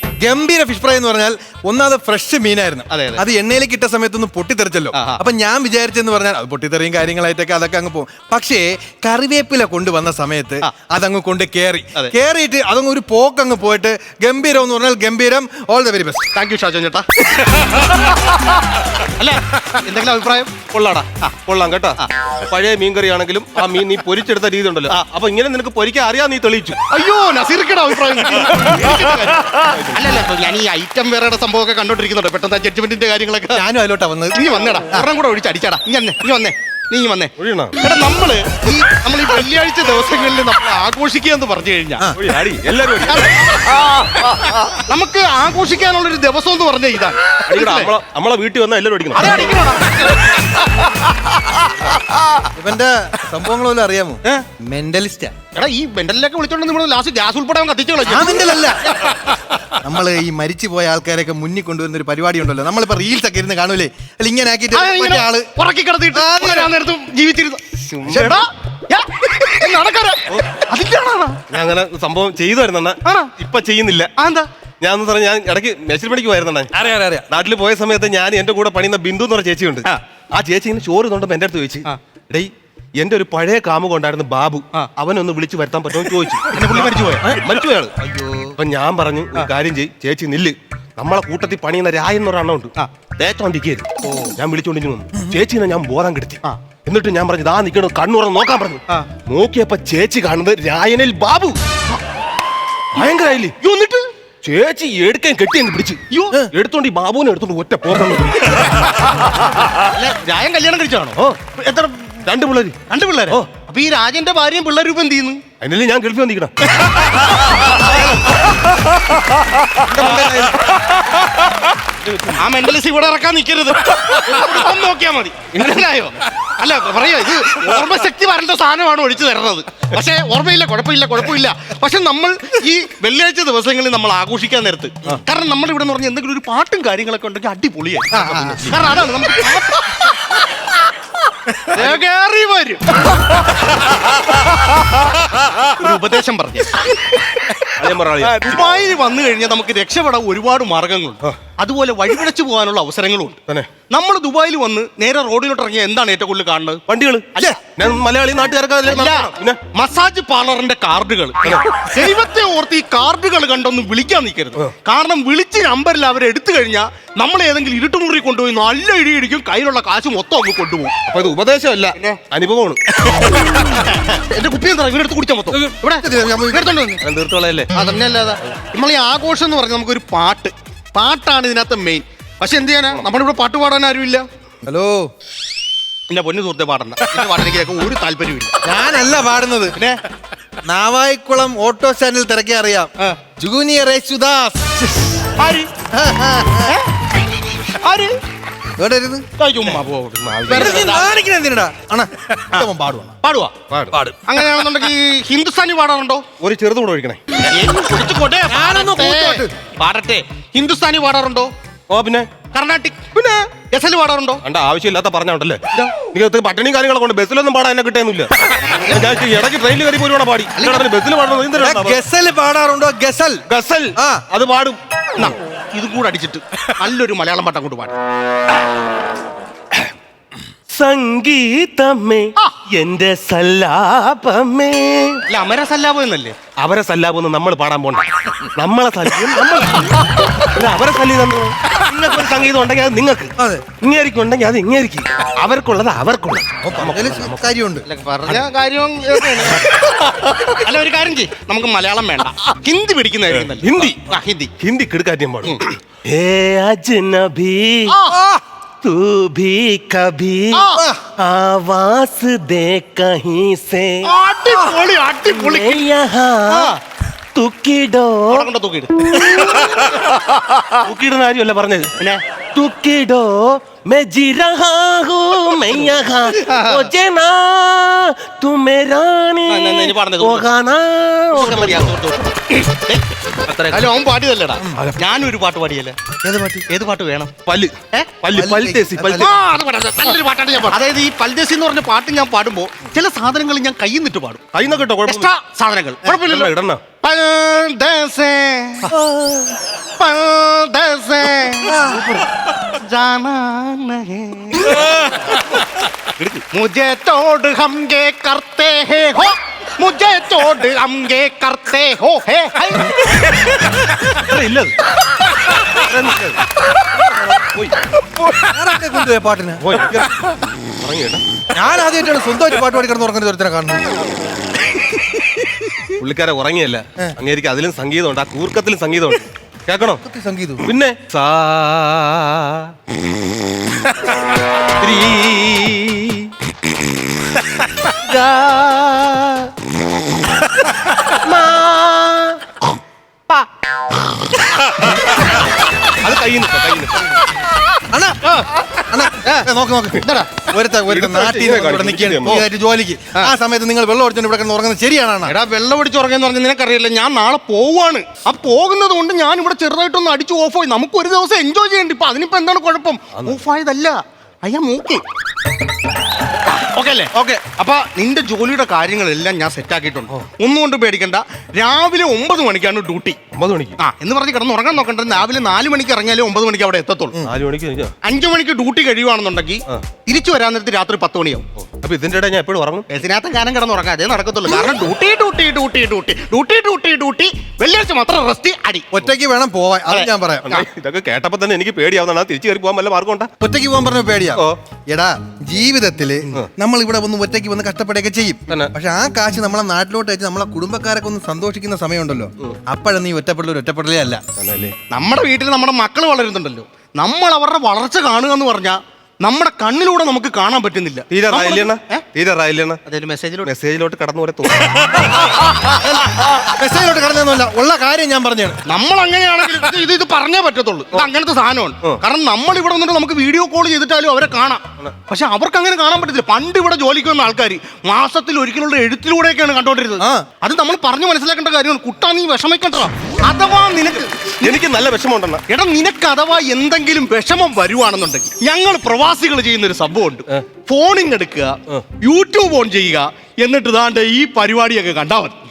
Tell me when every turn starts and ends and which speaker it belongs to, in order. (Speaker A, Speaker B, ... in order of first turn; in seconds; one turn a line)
Speaker A: 0.2-16.3
Speaker B: 2.9-3.2
Speaker B: 4.9-5.2
Speaker B: 16.3-20.6
Speaker C: 20.7-26.8
Speaker B: 26.9-33.6
Speaker C: 28.6-30.2
Speaker A: 33.5-35.0
Speaker B: 34.3-42.1
Speaker C: 37.4-37.8
Speaker C: 42.1-43.6
Speaker B: 43.1-47.9
Speaker C: 47.5-49.4
Speaker B: 49.1-52.4
Speaker A: 52.5-55.3
Speaker B: 55.5-59.3
Speaker A: 58.0-59.0
Speaker A: 59.8-65.5
Speaker B: 64.7-71.4
Speaker A: 66.1-66.7
Speaker C: 67.8-68.4
Speaker C: 71.5-74.1
Speaker B: 73.0-73.3
Speaker B: 74.2-74.5
Speaker C: 74.8-76.7
Speaker A: 76.7-77.3
Speaker C: 77.3-87.9
Speaker B: 86.5-87.3
Speaker B: 88.0-88.5
Speaker C: 88.6-101.6
Speaker B: 94.0-94.3
Speaker C: 103.0-103.6
Speaker B: 103.6-104.1
Speaker C: 104.4-106.0
Speaker B: 106.1-106.4
Speaker C: 106.5-108.8
Speaker B: 109.9-111.2
Speaker C: 111.2-112.8
Speaker B: 112.9-115.4
Speaker C: 115.6-116.5
Speaker B: 116.8-118.4
Speaker C: 117.7-118.0
Speaker C: 119.8-121.0
Speaker C: 122.0-122.4
Speaker B: 122.4-140.4
Speaker C: 124.1-124.5
Speaker C: 138.1-138.9
Speaker C: 141.5-142.0
Speaker B: 141.7-142.8
Speaker B: 145.7-146.9
Speaker C: 147.7-148.7
Speaker B: 148.2-153.4
Speaker B: 153.9-156.8
Speaker C: 156.9-159.6
Speaker B: 157.3-157.6
Speaker B: 158.9-170.9
Speaker C: 161.4-161.9
Speaker C: 171.1-172.8
Speaker B: 172.0-172.2
Speaker B: 173.2-177.0
Speaker A: 175.5-176.7
Speaker C: 177.0-177.7
Speaker B: 177.7-184.2
Speaker A: 184.6-185.1
Speaker B: 186.1-188.5
Speaker A: 188.6-189.8
Speaker A: 190.7-195.3
Speaker B: 195.4-195.7
Speaker A: 195.9-196.8
Speaker B: 197.5-198.1
Speaker A: 198.8-199.2
Speaker B: 199.4-201.1
Speaker C: 200.2-200.9
Speaker A: 200.5-203.2
Speaker B: 203.2-203.5
Speaker C: 203.7-204.0
Speaker B: 204.3-206.3
Speaker C: 206.4-207.2
Speaker B: 207.4-211.5
Speaker A: 208.5-209.5
Speaker C: 211.9-212.3
Speaker B: 212.5-214.4
Speaker C: 214.4-222.0
Speaker B: 220.6-220.8
Speaker A: 221.6-223.4
Speaker C: 223.5-224.8
Speaker A: 224.0-224.2
Speaker B: 225.2-227.9
Speaker C: 230.7-235.2
Speaker B: 235.3-236.4
Speaker C: 236.6-247.5
Speaker A: 243.4-243.7
Speaker A: 246.6-247.8
Speaker B: 247.8-249.9
Speaker B: 250.6-254.5
Speaker C: 253.4-254.0
Speaker C: 254.6-257.9
Speaker B: 257.9-258.2
Speaker A: 258.1-258.4
Speaker C: 258.8-260.6
Speaker B: 260.5-260.9
Speaker A: 260.8-261.1
Speaker C: 261.2-264.1
Speaker B: 264.0-265.8
Speaker C: 265.2-266.8
Speaker B: 266.5-266.8
Speaker C: 267.4-268.5
Speaker B: 268.3-269.3
Speaker C: 269.1-270.0
Speaker C: 270.8-271.9
Speaker C: 272.6-281.9
Speaker B: 276.3-276.9
Speaker B: 279.5-280.5
Speaker B: 281.3-283.1
Speaker C: 283.5-283.9
Speaker B: 283.7-286.0
Speaker A: 284.6-284.9
Speaker A: 286.2-286.6
Speaker B: 286.7-287.3
Speaker C: 287.5-289.3
Speaker A: 288.3-289.3
Speaker B: 289.2-294.4
Speaker C: 294.5-295.3
Speaker B: 295.1-298.9
Speaker C: 296.1-296.8
Speaker C: 298.9-299.5
Speaker B: 300.0-304.8
Speaker A: 301.7-302.0
Speaker C: 304.7-306.4
Speaker B: 306.5-313.0
Speaker C: 314.1-314.8
Speaker C: 315.7-316.4
Speaker C: 317.4-317.7
Speaker A: 318.4-319.6
Speaker C: 319.6-320.3
Speaker C: 320.8-321.2
Speaker A: 321.5-324.0
Speaker C: 326.0-330.0
Speaker A: 330.0-330.6
Speaker C: 330.6-332.7
Speaker C: 334.8-336.3
Speaker C: 337.4-339.5
Speaker C: 341.1-342.4
Speaker C: 344.7-345.0
Speaker C: 346.0-347.2
Speaker A: 347.9-348.2
Speaker A: 348.9-355.3
Speaker B: 349.1-349.5
Speaker B: 350.0-350.3
Speaker C: 350.9-352.4
Speaker B: 355.2-365.0
Speaker B: 366.5-373.2
Speaker C: 373.3-373.8
Speaker B: 373.8-377.2
Speaker C: 377.2-377.9
Speaker B: 378.0-381.4
Speaker C: 381.6-382.9
Speaker B: 382.9-388.9
Speaker A: 388.9-390.6
Speaker C: 390.5-393.3
Speaker A: 393.4-404.2
Speaker C: 404.4-404.7
Speaker B: 404.9-412.0
Speaker C: 411.1-412.8
Speaker B: 412.9-413.5
Speaker C: 413.4-415.1
Speaker B: 414.9-415.4
Speaker A: 416.4-418.6
Speaker B: 418.6-434.6
Speaker A: 430.0-430.2
Speaker C: 434.4-435.4
Speaker B: 435.5-445.4